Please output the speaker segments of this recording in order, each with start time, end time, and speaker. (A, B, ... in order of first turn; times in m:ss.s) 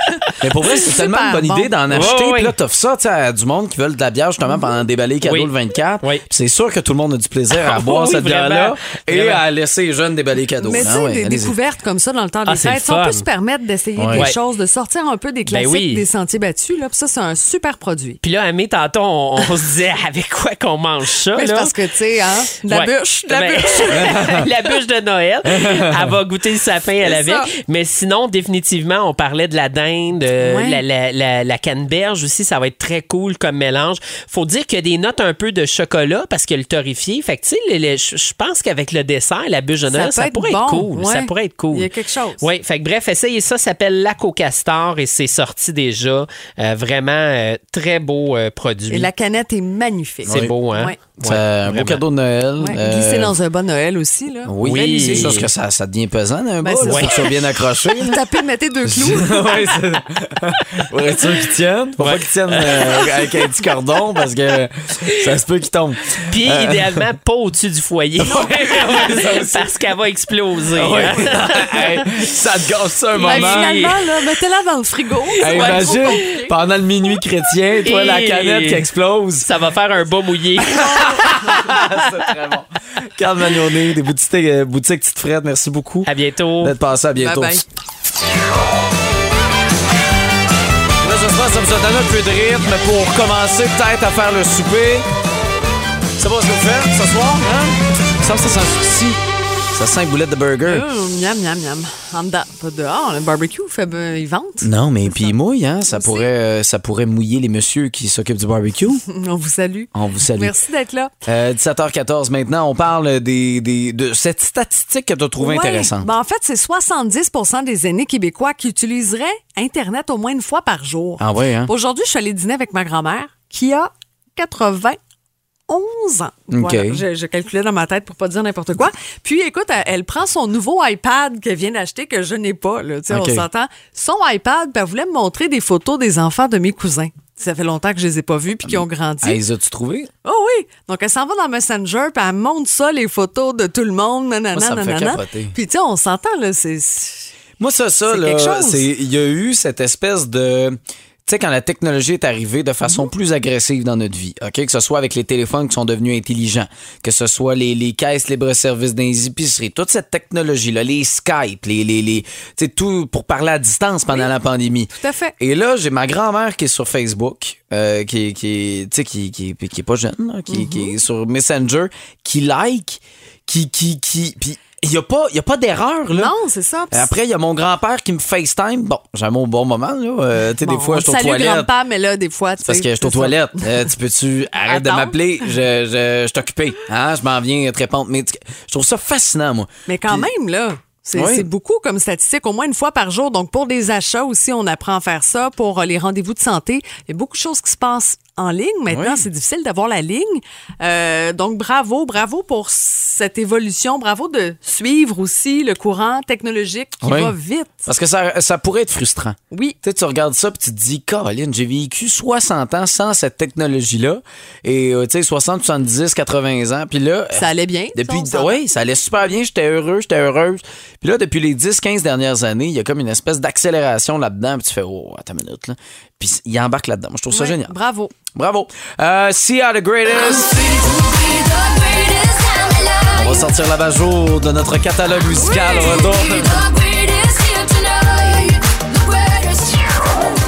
0:00.1-0:02.1 A
0:00.3-0:11.5 B
0:01.9-0:02.5 C
0:05.2-0:06.2 C
0:07.5-0:09.4 C
0:10.6-0:18.2 A
0:12.4-0:13.2 C
0:14.0-0:14.3 B
0:15.5-0:16.1 C
0:18.2-0:21.7 C
0:21.3-0:24.5 A
0:22.6-0:49.1 C
0:24.0-0:24.4 B
0:25.5-0:26.1 B
0:27.0-0:27.5 A
0:30.4-0:30.8 A
0:39.9-0:42.4 A
0:48.9-0:51.0 A
0:50.3-0:50.5 B
0:50.3-0:52.0 C
0:51.2-0:53.3 B
0:52.6-0:55.4 A
0:54.4-0:58.2 B
0:54.6-0:55.5 C
0:56.6-0:57.3 A
0:56.8-0:57.2 C
0:57.9-0:59.7 A
0:58.8-1:07.0 B
1:02.0-1:03.2 C
1:06.2-1:11.9 C
1:08.2-1:09.7 B
1:10.7-1:13.8 B
1:13.2-1:14.1 C
1:13.2-1:16.5 A
1:15.4-1:16.2 C
1:15.4-1:19.5 B
1:17.8-1:18.9 C
1:19.4-1:21.8 C
1:20.7-1:26.1 B
1:20.8-1:21.7 A
1:26.0-1:26.8 C
1:26.6-1:27.6 B
1:27.2-1:27.6 A
1:31.0-1:35.1 B
1:36.2-1:39.2 B
1:39.7-1:40.8 B
1:40.6-1:45.3 A
1:44.6-1:49.0 B
1:45.9-1:46.3 A
1:49.1-1:51.1 A
1:49.9-1:50.5 B
1:51.2-1:56.1 B
1:55.4-2:05.0 A
2:01.2-2:01.7 B
2:05.7-2:19.4 A
2:06.5-2:07.0 B
2:13.1-2:13.5 B
2:18.6-2:20.1 B
2:20.2-2:27.3 A
2:24.5-2:25.5 B
2:27.6-2:56.3 B
2:28.1-2:28.9 A
2:44.9-2:45.3 A
2:50.5-2:51.0 A
2:56.1-2:57.1 A
2:56.9-3:01.7 B
3:00.6-3:03.9 A
3:02.6-3:10.3 B
3:04.6-3:05.2 A
3:09.9-3:27.9 A
3:11.1-3:11.4 B
3:18.9-3:19.2 B
3:27.0-3:47.7 B
3:29.5-3:29.8 A
3:37.3-3:38.6 A
3:47.3-3:48.1 A
3:48.3-3:50.8 B
3:50.5-3:53.1 A
3:53.1-3:56.6 B
3:55.4-3:58.4 A
3:59.2-3:59.7 A